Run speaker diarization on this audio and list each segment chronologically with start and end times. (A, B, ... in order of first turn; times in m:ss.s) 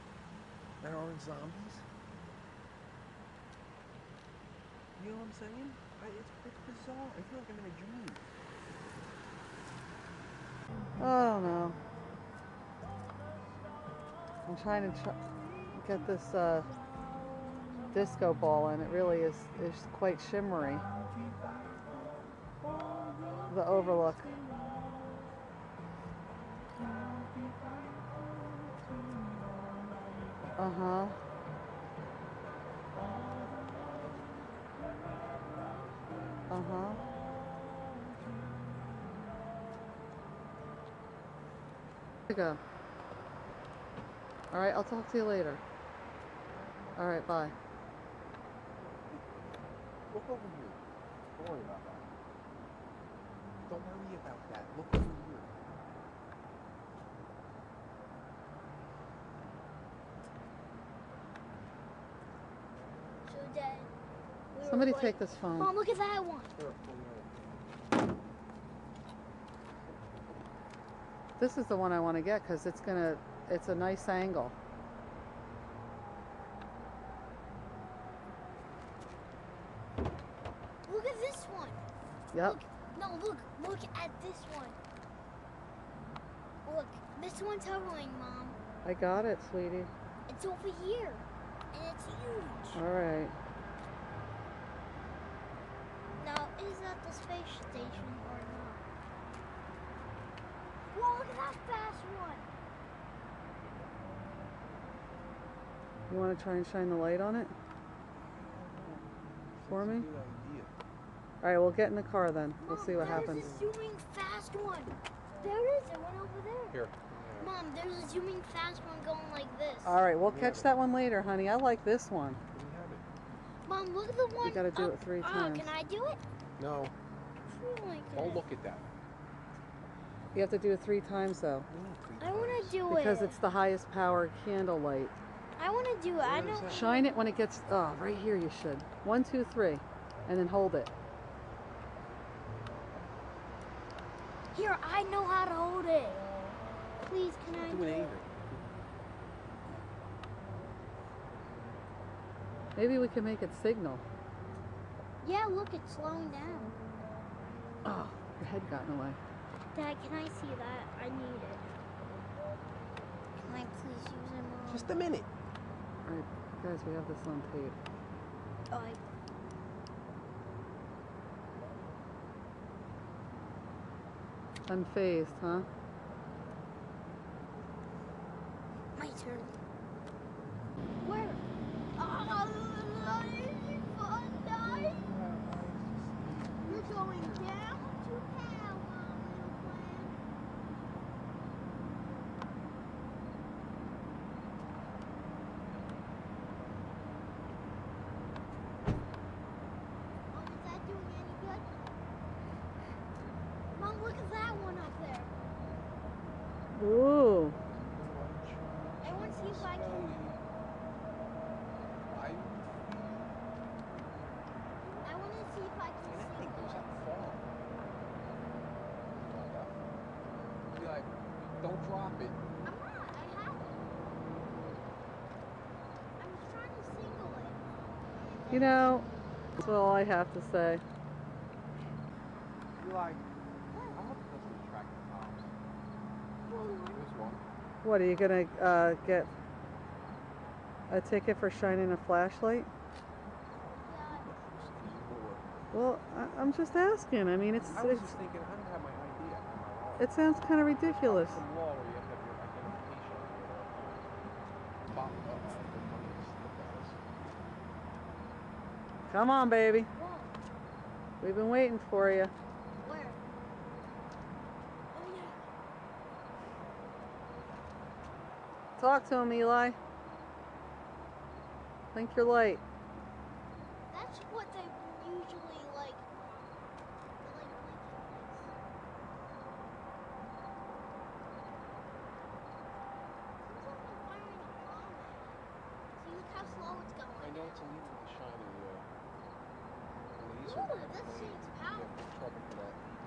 0:00.8-0:01.9 A
0:05.0-0:08.2 A
0:11.0-0:11.8 B
0:14.5-0:15.2 B
0:15.7-0:16.7 B
0:17.9-0:20.8 B
0:23.5-0:24.3 B
0:30.6-0:31.2 B
0:36.5-0:37.0 B
0:42.3-0:42.6 B
0:44.5-0:45.6 B
0:46.5-0:47.2 A
0:47.0-0:47.6 B
0:49.1-0:49.4 A
0:50.1-0:50.8 A
0:51.3-0:52.1 A
0:53.7-0:55.5 A
1:03.2-1:03.9 C
1:04.5-1:06.6 C
1:04.6-1:05.7 B
1:06.6-1:07.3 A
1:11.4-1:14.6 B
1:20.9-1:24.8 C
1:26.6-1:28.6 C
1:28.8-1:29.9 B
1:30.3-1:32.8 C
1:32.8-1:33.3 B
1:36.2-1:38.8 C
1:40.9-1:42.5 C
1:46.1-1:47.6 B
1:48.2-1:50.8 A
1:49.7-1:50.1 B
1:51.4-1:53.5 B
1:52.6-1:56.8 C
1:52.8-1:53.7 A
1:56.7-1:57.5 A
1:57.4-2:00.0 C
1:59.8-2:02.4 B
2:00.2-2:00.7 A
2:02.5-2:03.0 A
2:03.6-2:06.2 C
2:04.4-2:05.7 B
2:06.6-2:06.9 A
2:07.5-2:08.4 C
2:08.1-2:08.9 A
2:10.3-2:11.7 B
2:11.7-2:12.8 A
2:12.2-2:13.4 C
2:12.9-2:15.1 B
2:15.6-2:17.4 C
2:16.2-2:16.9 A
2:16.7-2:20.9 B
2:24.5-2:26.2 C
2:27.0-2:28.1 C
2:27.5-2:28.6 A
2:32.8-2:34.0 B
2:35.2-2:36.8 C
2:37.8-2:39.2 B
2:39.7-2:41.7 C
2:43.4-2:45.0 C
2:44.7-2:45.3 A
2:46.0-2:47.8 B
2:48.7-2:49.0 C
2:54.7-2:55.7 B
2:59.0-2:59.6 C
3:01.0-3:01.4 C
3:02.0-3:05.0 C
3:04.6-3:07.6 A
3:06.6-3:10.2 C
3:20.3-3:22.0 C
3:23.7-3:25.3 C
3:26.7-3:27.6 B
3:27.6-3:30.4 A
3:29.0-3:30.2 C
3:32.1-3:33.4 A
3:34.8-3:35.3 A
3:35.0-3:36.9 C
3:36.1-3:37.5 A
3:39.1-3:39.8 A
3:40.7-3:42.4 A
3:42.6-3:43.8 C
3:46.2-3:49.0 C
3:48.5-3:50.8 B
3:49.5-3:49.9 C
3:52.8-3:53.3 A
3:53.7-3:54.2 C
3:53.9-3:55.5 A
3:56.4-3:57.0 C
3:56.9-3:57.4 A
3:57.8-3:59.3 B
4:00.9-4:02.7 B
4:03.8-4:04.3 C
4:04.1-4:05.6 A
4:05.7-4:08.2 B
4:07.7-4:10.2 A
4:10.0-4:11.4 B
4:10.8-4:14.1 A
4:14.8-4:17.0 A
4:19.1-4:19.9 B
4:20.0-4:20.3 C
4:21.2-4:22.3 B
4:22.8-4:23.2 C
4:24.9-4:25.4 C
4:28.8-4:29.8 B
4:31.9-4:32.6 B
4:33.9-4:36.1 C
4:37.2-4:38.5 C
4:43.4-4:45.4 C
4:46.0-4:47.6 C
4:47.2-4:48.9 A
4:50.2-4:52.8 A
4:50.4-4:51.9 C